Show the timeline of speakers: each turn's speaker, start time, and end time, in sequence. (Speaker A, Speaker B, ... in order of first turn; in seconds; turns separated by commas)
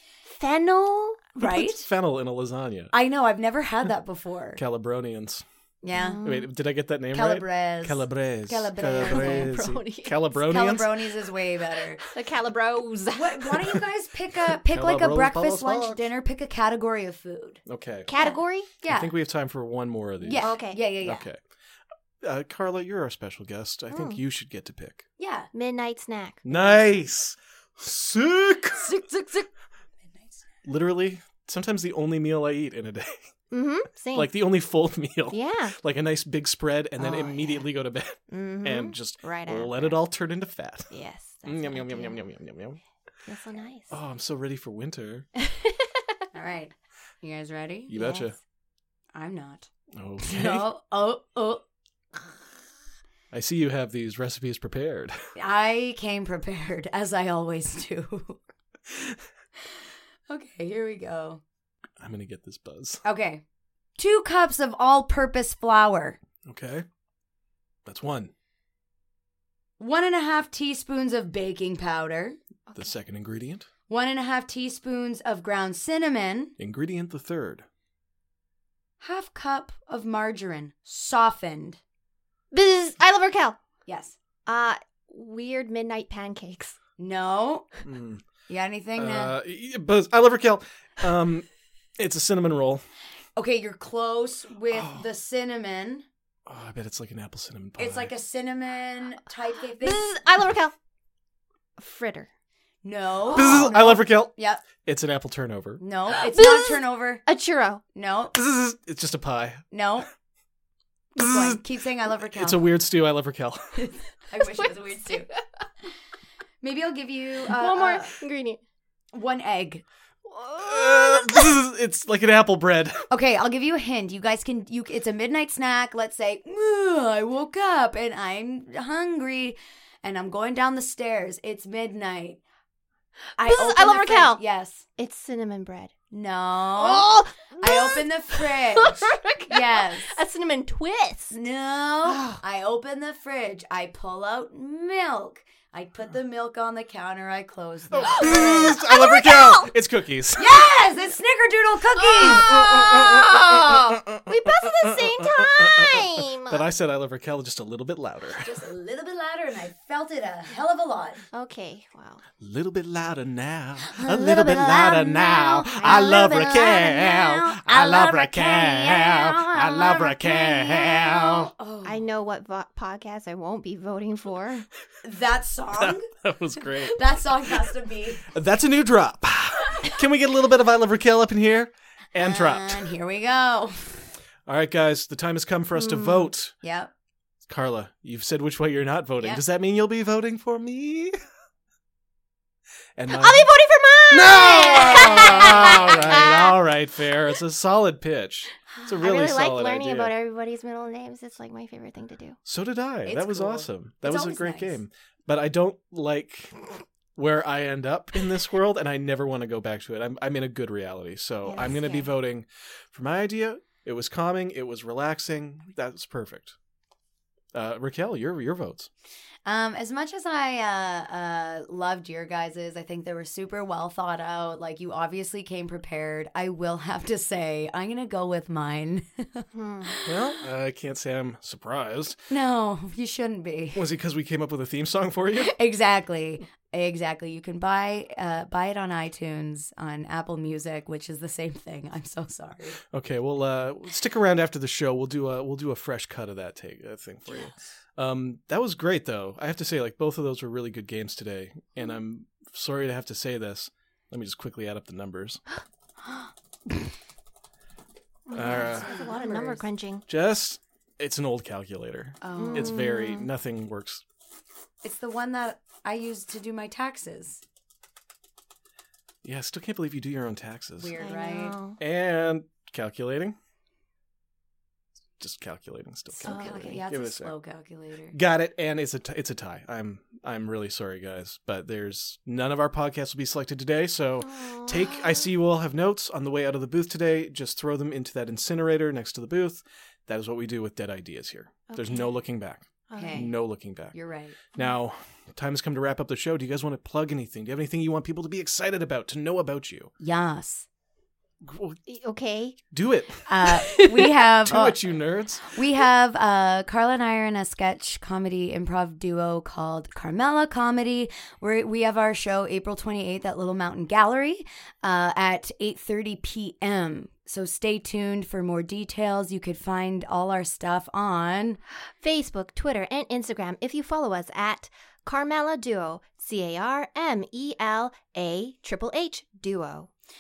Speaker A: 0.2-1.3, Speaker B: 1.3-1.9, Speaker C: 1.4-2.9, Speaker B: 2.9-4.6, Speaker C: 4.5-5.4, Speaker B: 5.8-6.2, Speaker A: 5.9-6.5, Speaker C: 6.2-11.0, Speaker B: 7.1-9.5, Speaker A: 8.9-10.2, Speaker B: 10.3-12.0, Speaker A: 12.1-13.7, Speaker B: 13.1-17.6, Speaker C: 14.4-16.1, Speaker C: 17.6-18.1, Speaker A: 18.1-18.7, Speaker B: 18.1-19.1, Speaker C: 18.8-21.4, Speaker B: 20.2-21.2, Speaker A: 20.4-21.0, Speaker C: 22.2-25.0, Speaker A: 23.9-24.2, Speaker B: 25.2-25.5, Speaker A: 25.5-26.4, Speaker C: 26.4-28.9, Speaker B: 28.8-29.5, Speaker B: 30.1-30.4, Speaker C: 30.6-33.2, Speaker A: 33.5-34.3, Speaker C: 34.1-40.9, Speaker A: 35.3-35.8, Speaker B: 37.0-37.6, Speaker A: 38.3-40.0, Speaker A: 40.9-42.2, Speaker C: 41.4-42.8, Speaker A: 43.2-43.9, Speaker C: 43.9-45.3, Speaker A: 45.4-46.0, Speaker B: 46.3-47.9, Speaker C: 47.9-48.4, Speaker A: 48.0-48.3, Speaker B: 49.1-49.7, Speaker C: 49.9-50.7, Speaker B: 50.2-51.6, Speaker C: 53.3-55.1, Speaker B: 55.3-58.4, Speaker B: 60.3-61.4, Speaker C: 62.0-63.0, Speaker B: 63.0-63.4, Speaker B: 64.0-66.2, Speaker C: 66.4-66.8, Speaker C: 67.8-68.3, Speaker B: 69.8-72.4, Speaker C: 72.7-73.7, Speaker B: 73.9-76.5, Speaker C: 76.6-77.6, Speaker B: 79.0-81.8, Speaker A: 82.5-83.6, Speaker B: 83.9-84.2, Speaker A: 84.5-86.8, Speaker B: 87.0-87.7, Speaker C: 87.8-88.2, Speaker B: 88.5-89.3, Speaker C: 89.0-92.8, Speaker B: 93.3-96.0, Speaker C: 94.7-95.0, Speaker C: 96.5-98.1, Speaker B: 97.8-100.0, Speaker A: 99.8-100.7, Speaker A: 101.8-102.3, Speaker B: 102.8-104.6, Speaker C: 103.3-105.8, Speaker B: 105.8-107.2, Speaker A: 106.2-107.8, Speaker B: 107.9-108.3, Speaker C: 108.3-109.6, Speaker B: 109.7-110.1, Speaker B: 111.2-112.7, Speaker C: 111.2-111.6, Speaker C: 112.3-113.8, Speaker B: 113.7-115.3, Speaker A: 114.3-115.4, Speaker B: 116.6-118.1, Speaker A: 117.5-118.6, Speaker B: 119.1-119.8, Speaker A: 120.2-121.5, Speaker C: 120.6-123.0, Speaker B: 123.1-132.4, Speaker B: 133.4-134.8, Speaker A: 133.4-134.4, Speaker A: 135.0-135.9, Speaker B: 136.1-137.1, Speaker A: 136.7-141.3, Speaker B: 137.6-140.2, Speaker B: 141.3-148.8, Speaker A: 142.1-142.4, Speaker C: 147.9-150.7, Speaker A: 148.1-149.7, Speaker B: 150.4-152.5, Speaker A: 152.0-156.6, Speaker C: 152.3-158.6, Speaker B: 158.4-161.2, Speaker A: 161.3-162.2, Speaker C: 162.4-171.5, Speaker B: 163.9-172.0, Speaker A: 164.1-166.2, Speaker A: 170.7-171.1, Speaker A: 171.8-174.7, Speaker B: 175.0-176.1, Speaker C: 175.8-177.7, Speaker B: 176.7-178.3, Speaker C: 178.3-182.9, Speaker B: 182.2-184.1, Speaker C: 184.4-186.5, Speaker A: 185.8-186.2, Speaker B: 186.6-186.9, Speaker C: 187.5-191.2, Speaker C: 192.9-193.5, Speaker A: 193.1-196.5, Speaker C: 194.1-200.1, Speaker A: 199.0-202.4, Speaker C: 202.4-216.6, Speaker B: 203.1-204.8, Speaker A: 211.4-212.1, Speaker C: 217.5-218.9, Speaker B: 219.4-230.2, Speaker A: 229.5-229.9, Speaker C: 230.0-232.2, Speaker B: 232.3-233.8, Speaker C: 233.7-235.5, Speaker B: 235.5-242.8, Speaker C: 242.9-255.4, Speaker A: 258.3-260.0, Speaker C: 258.3-258.9, Speaker B: 258.3-259.7, Speaker C: 260.1-264.0, Speaker B: 262.2-262.8, Speaker A: 262.4-263.3, Speaker B: 264.8-267.4, Speaker C: 269.2-271.0, Speaker B: 270.8-271.6, Speaker A: 271.0-271.8, Speaker C: 271.8-273.4, Speaker C: 275.2-277.3, Speaker B: 276.1-278.1, Speaker A: 276.2-276.8, Speaker C: 278.1-293.9, Speaker A: 284.2-285.3, Speaker A: 291.7-292.2, Speaker A: 292.9-293.3, Speaker B: 292.9-293.3, Speaker B: 293.9-294.4, Speaker C: 294.5-299.9, Speaker B: 300.0-300.7, Speaker C: 301.4-301.8, Speaker A: 301.9-302.6, Speaker C: 302.7-303.2, Speaker B: 303.2-304.8, Speaker A: 303.7-304.1, Speaker C: 304.4-305.5, Speaker B: 305.4-321.6, Speaker A: 322.0-329.9